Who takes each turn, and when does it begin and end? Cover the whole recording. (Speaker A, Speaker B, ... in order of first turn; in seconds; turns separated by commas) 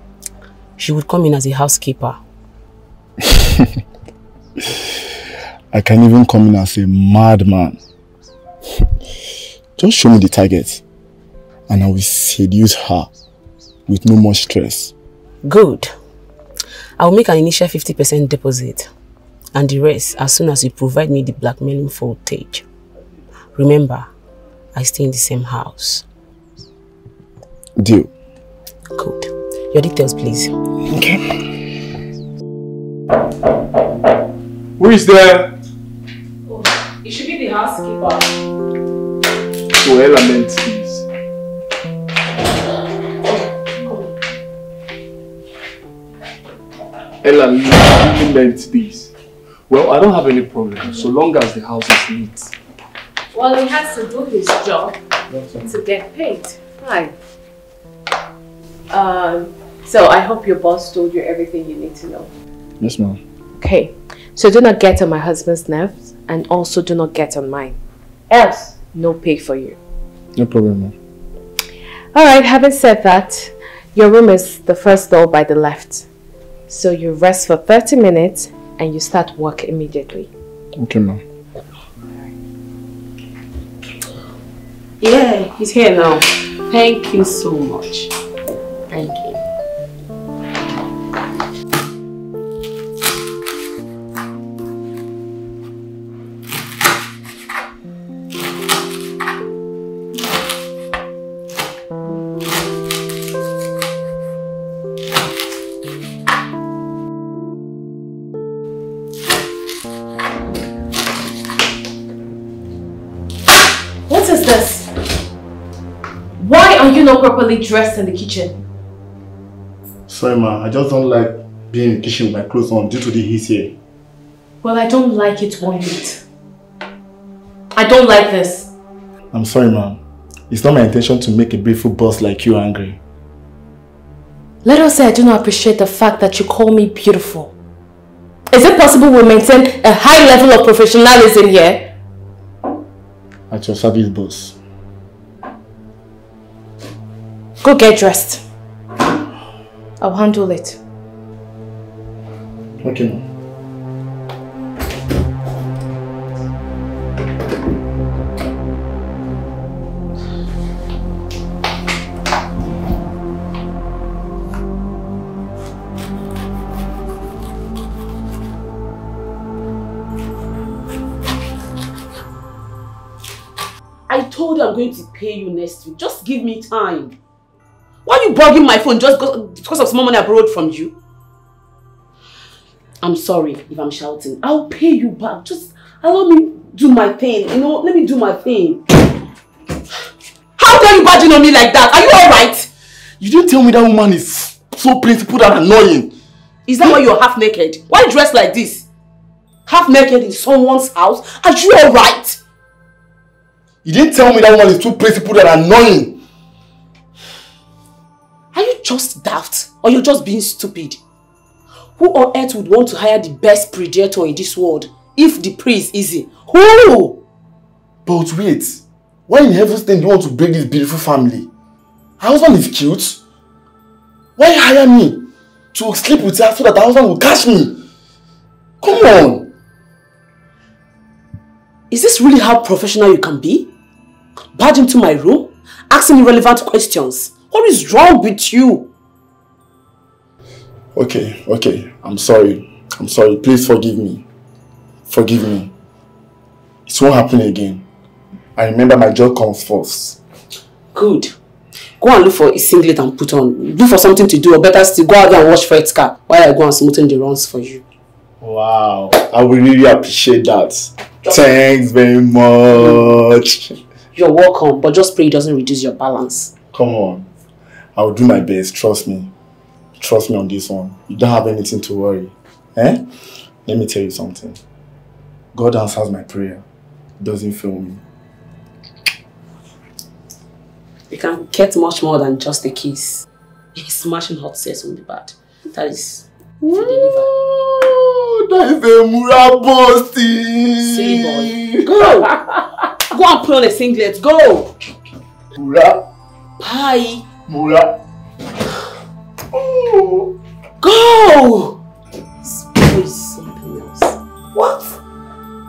Speaker A: 0.8-2.2, Speaker B: 5.7-7.8, Speaker B: 9.8-10.8, Speaker B: 11.7-13.1, Speaker B: 13.9-14.9, Speaker A: 15.4-15.9, Speaker A: 17.0-18.9, Speaker A: 19.5-22.6, Speaker A: 23.6-24.1, Speaker A: 24.7-26.0, Speaker B: 27.8-28.1, Speaker A: 28.9-30.5, Speaker B: 30.9-31.2, Speaker C: 34.8-35.5, Speaker A: 37.0-38.2, Speaker C: 39.8-41.0, Speaker C: 47.2-49.1, Speaker C: 49.7-52.5, Speaker D: 53.3-55.0, Speaker B: 55.3-55.6, Speaker D: 55.6-57.1, Speaker D: 58.9-62.3, Speaker B: 62.8-63.2, Speaker D: 63.6-67.8, Speaker D: 68.3-69.8, Speaker B: 70.3-71.0, Speaker D: 72.1-76.1, Speaker D: 76.7-80.3, Speaker B: 80.8-81.2, Speaker A: 85.0-88.1, Speaker A: 88.9-89.4, Speaker D: 114.1-114.9, Speaker D: 116.4-118.6, Speaker B: 120.1-123.7, Speaker D: 124.6-126.2, Speaker D: 127.7-128.7, Speaker B: 129.3-130.0, Speaker B: 130.5-133.0, Speaker D: 134.6-137.5, Speaker D: 138.5-141.9, Speaker B: 143.5-144.6, Speaker D: 147.6-148.4, Speaker D: 150.0-150.8, Speaker B: 152.8-153.2, Speaker A: 174.1-177.2, Speaker A: 178.0-180.9, Speaker A: 183.0-188.8, Speaker A: 190.6-192.7, Speaker B: 193.2-196.1, Speaker A: 196.7-198.8, Speaker A: 199.7-202.4, Speaker B: 203.8-206.2, Speaker A: 208.5-211.0, Speaker A: 212.0-217.2, Speaker B: 218.1-221.5, Speaker B: 222.2-223.2, Speaker B: 224.4-227.8, Speaker B: 228.8-229.5, Speaker A: 231.9-233.7, Speaker A: 234.5-238.9, Speaker B: 240.9-244.2, Speaker B: 245.1-245.7, Speaker B: 246.9-247.8, Speaker B: 248.6-250.2, Speaker A: 250.9-251.3, Speaker A: 252.0-257.8, Speaker B: 258.4-263.8, Speaker A: 262.7-263.2, Speaker A: 264.1-266.5, Speaker B: 266.7-267.3, Speaker B: 267.9-269.3, Speaker B: 270.0-273.1, Speaker B: 273.6-274.6, Speaker B: 275.5-276.6, Speaker B: 277.2-278.0, Speaker A: 281.1-287.3, Speaker B: 286.6-292.5, Speaker A: 290.8-292.4, Speaker A: 293.1-294.7, Speaker B: 295.5-296.1, Speaker A: 296.6-297.3, Speaker B: 297.5-298.0, Speaker B: 299.5-300.4, Speaker A: 300.8-301.8, Speaker A: 302.4-305.0